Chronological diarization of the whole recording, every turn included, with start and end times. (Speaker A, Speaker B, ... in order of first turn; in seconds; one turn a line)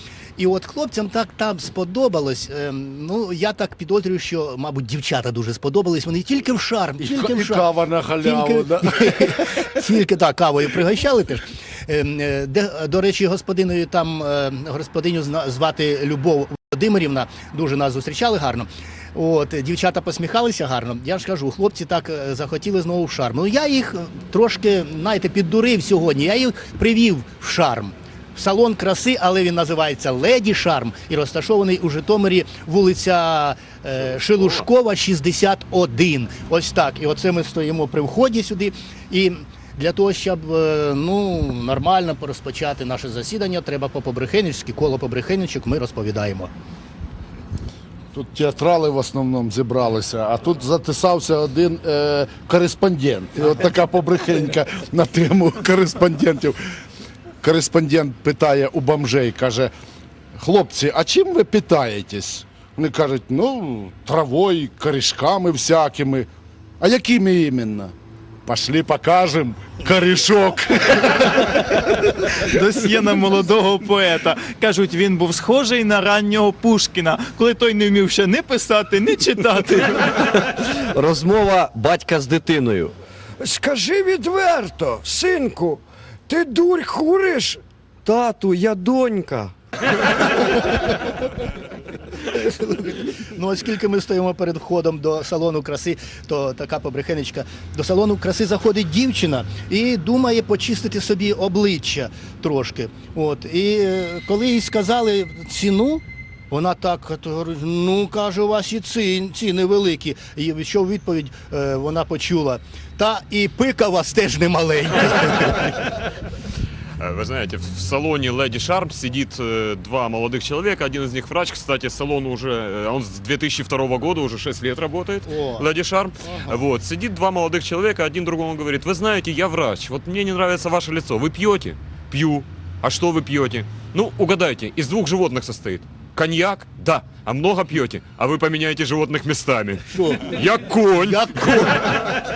Speaker A: 0.4-7.7
Speaker B: 7.0-9.6
Speaker A: 8.2-46.5
Speaker B: 48.1-56.5
Speaker B: 57.4-59.7
Speaker B: 60.4-66.3
Speaker B: 66.8-67.9
Speaker B: 68.5-71.5
Speaker C: 72.4-80.4
Speaker D: 80.3-82.9
Speaker E: 83.4-87.6
Speaker D: 88.0-89.5
Speaker A: 92.2-116.0
Speaker F: 117.0-141.8
Speaker A: 125.3-125.7
Speaker A: 139.9-140.4
Speaker A: 140.9-142.0